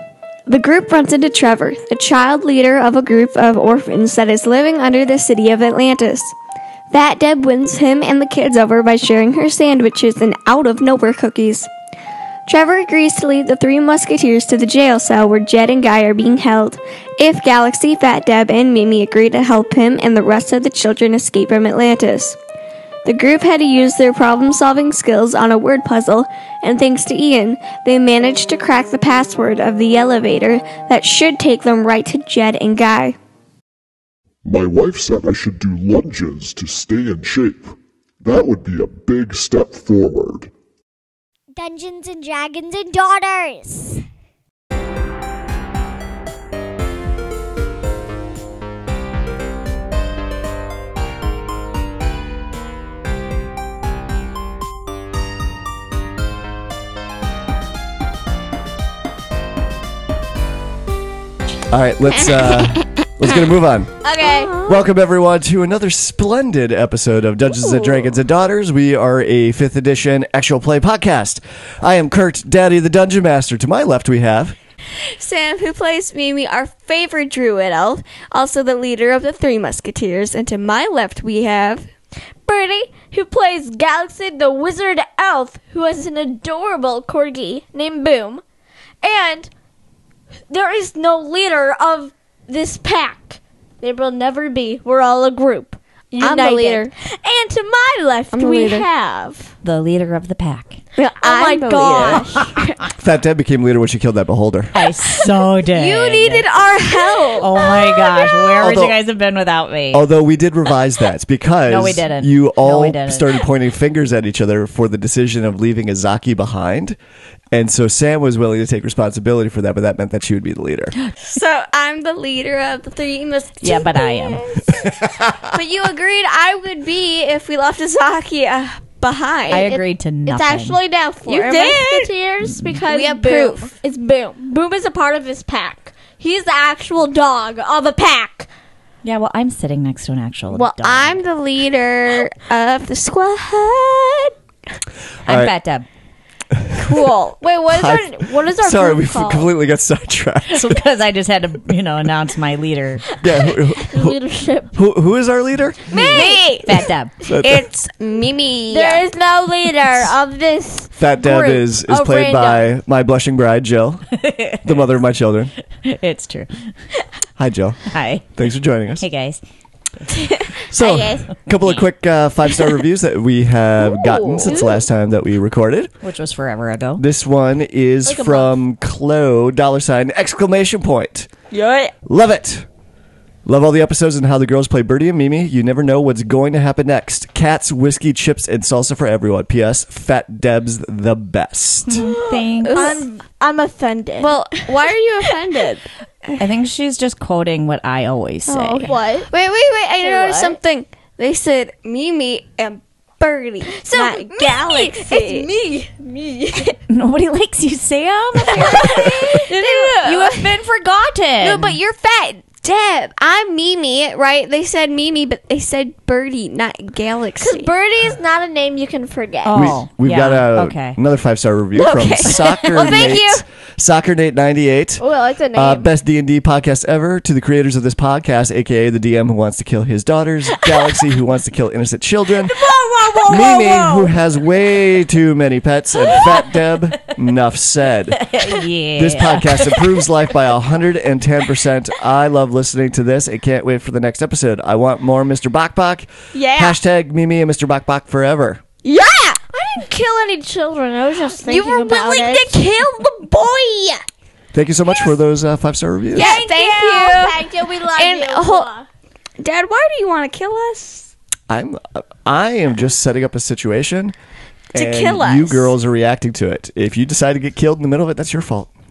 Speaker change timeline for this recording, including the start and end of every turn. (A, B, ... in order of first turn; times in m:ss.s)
0:00.5-0:06.3 A
0:06.9-0:11.7 A
0:12.5-0:22.4 A
0:23.0-0:33.2 A
0:34.4-0:40.5 B
0:41.5-0:44.0 C
1:01.7-1:04.0 D
1:02.4-1:02.6 A
1:04.0-1:04.6 A
1:04.0-1:04.8 E
1:04.6-1:14.6 D
1:15.0-1:21.9 A
1:22.4-1:28.4 E
1:29.0-1:29.5 E
1:30.5-1:39.5 E
1:36.2-1:36.9 A
1:38.3-1:38.8 A
1:39.6-1:40.8 F
1:41.0-1:42.7 E
1:41.0-1:42.5 A
1:43.0-1:44.7 D
1:44.7-1:46.4 F
1:45.6-1:48.4 A
1:47.4-1:50.0 F
1:48.6-1:49.0 D
1:49.9-1:57.0 D
1:51.7-1:53.4 F
1:57.5-2:01.0 D
2:01.2-2:04.9 A
2:03.6-2:04.5 F
2:04.7-2:05.6 D
2:05.4-2:09.7 A
2:09.5-2:10.8 F
2:09.6-2:18.5 E
2:11.2-2:12.1 A
2:12.5-2:12.8 F
2:12.9-2:13.7 A
2:19.0-2:21.2 F
2:20.5-2:24.3 A
2:25.2-2:25.8 F
2:25.3-2:25.5 D
2:26.5-2:27.0 D
2:26.7-2:29.5 A
2:27.4-2:29.4 E
2:27.7-2:30.8 D
2:30.5-2:33.1 F
2:33.2-2:34.2 D
2:33.8-2:34.7 E
2:34.7-2:35.9 D
2:35.9-2:39.0 A
2:35.9-2:37.1 F
2:37.2-2:37.6 D
2:38.7-2:42.7 E
2:41.0-2:44.1 D
2:44.2-2:44.7 F
2:44.6-2:45.5 D
2:45.7-2:46.7 F
2:47.4-2:49.0 D
2:47.9-2:48.3 F
2:49.0-2:49.4 F
2:50.2-2:51.3 A
2:50.6-2:55.9 D
2:51.5-2:51.8 F
2:53.9-2:54.8 A
2:56.0-2:57.0 F
2:57.0-3:01.3 D
2:58.0-2:58.5 E
3:01.5-3:01.9 A
3:02.0-3:02.7 D
3:03.4-3:12.1 D
3:11.9-3:13.0 F
3:12.0-3:14.6 E
3:12.6-3:13.0 A
3:14.2-3:15.9 A
3:16.4-3:18.9 F
3:18.5-3:25.5 A
3:18.8-3:19.3 E
3:20.0-3:20.6 E
3:23.7-3:26.7 E
3:26.9-3:31.8 F
3:28.4-3:30.5 A
3:28.7-3:29.9 E
3:31.4-3:37.7 A
3:37.4-3:39.8 E
3:39.4-3:41.0 F
3:39.5-3:52.6 D
3:41.7-3:43.4 A
3:42.3-3:43.1 F
3:45.0-3:45.9 E
3:52.5-3:54.1 E
3:53.2-3:58.2 D
3:58.2-3:59.8 F
3:58.9-4:08.6 D
4:06.3-4:06.8 A
4:08.8-4:09.4 A
4:09.5-4:12.6 E
4:11.4-4:14.0 A
4:14.5-4:16.4 D
4:16.1-4:18.7 A
4:16.1-4:18.8 E
4:19.4-4:21.1 A
4:21.5-4:24.1 D
4:24.7-4:25.7 A
4:24.7-4:28.7 D